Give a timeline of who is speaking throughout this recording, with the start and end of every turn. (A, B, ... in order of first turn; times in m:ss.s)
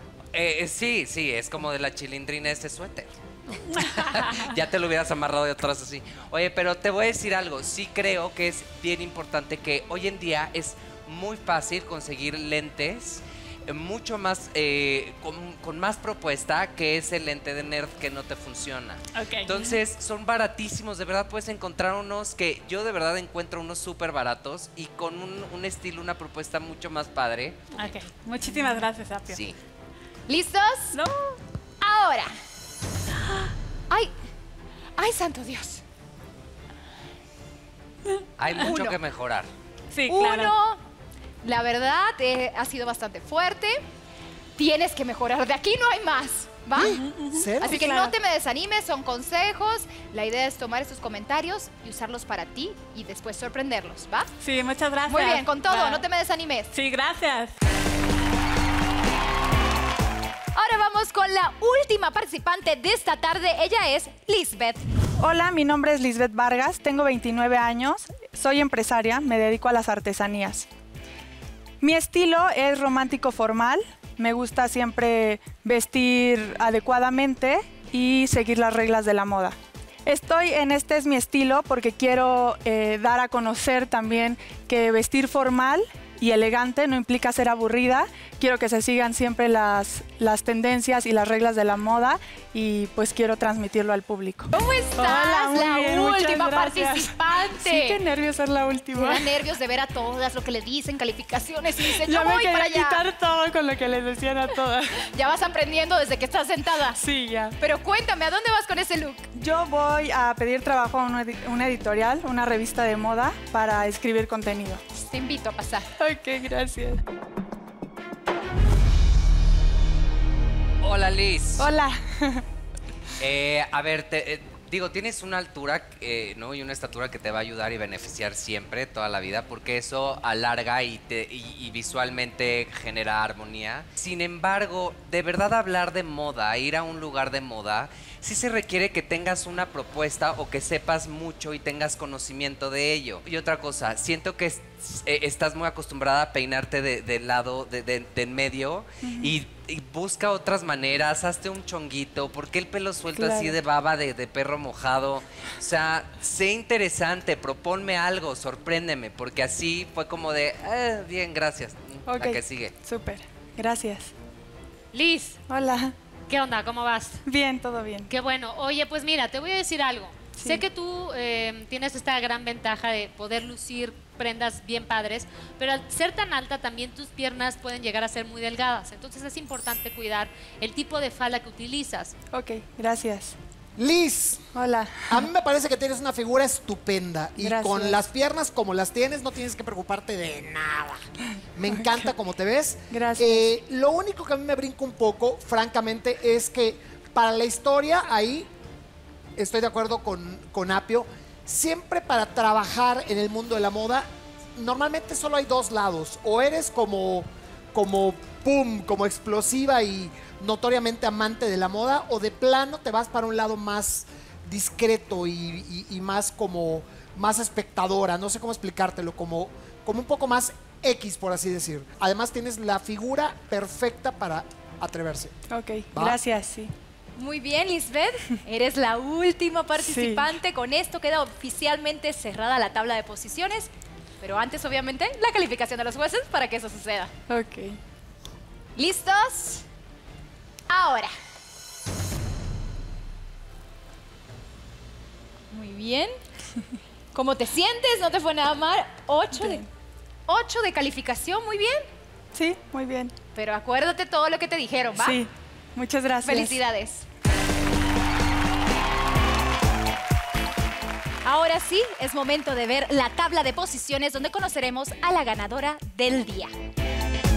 0:00.3-0:27.6 A
0:03.7-0:04.5 B
0:19.1-0:19.8 B
0:27.7-0:29.4 B
0:29.3-0:29.6 A
0:30.3-0:31.0 C
0:30.9-0:31.4 B
0:31.8-0:32.3 C
0:35.0-0:35.8 C
0:38.1-0:38.6 B
0:38.4-0:39.5 A
0:38.6-0:39.0 C
0:39.9-0:40.5 B
0:40.1-0:40.8 C
0:41.4-0:43.8 C
0:44.6-0:47.0 C
0:46.7-0:47.9 D
0:46.8-0:47.7 B
0:47.6-0:54.3 C
0:54.4-0:56.0 B
0:55.1-0:56.7 C
0:56.7-0:57.5 B
1:00.6-1:04.8 C
1:05.2-1:10.7 E
1:11.8-1:39.3 E
1:34.5-1:38.0 C
1:38.9-1:43.0 C
1:42.0-1:45.0 E
1:45.1-1:47.0 C
1:47.0-1:47.6 E
1:47.6-1:49.3 C
1:49.4-1:54.8 E
1:55.0-1:55.9 C
1:56.0-1:57.0 E
2:00.8-2:01.7 A
2:01.6-2:02.4 E
2:03.2-2:42.8 A
2:29.0-2:29.4 E
2:33.2-2:33.6 E
2:42.1-2:44.1 E
2:44.9-2:45.4 F
2:45.5-2:45.9 E
2:46.3-2:47.2 F
2:47.2-2:48.1 E
2:48.1-3:02.1 F
2:50.3-2:50.6 E
3:02.3-3:03.4 E
3:03.8-3:04.5 D
3:04.5-3:05.3 E
3:05.1-3:11.0 D
3:07.4-3:08.0 E
3:11.6-3:18.5 D
3:11.7-3:12.1 E
3:12.9-3:13.5 E
3:19.4-3:45.4 D
3:45.5-3:46.7 E
3:45.9-3:46.2 D
3:47.2-3:53.7 C
3:49.8-3:50.3 E
3:54.2-3:57.1 C
3:57.3-3:57.8 E
3:58.8-3:59.6 C
4:00.7-4:01.1 C
4:05.5-4:06.2 C
4:07.1-4:09.6 C
4:09.3-4:09.6 E
4:10.3-4:11.8 C
4:12.3-4:13.1 E
4:13.4-4:15.2 C
4:15.0-4:16.6 E
4:16.2-4:17.0 C
4:21.2-4:26.5 C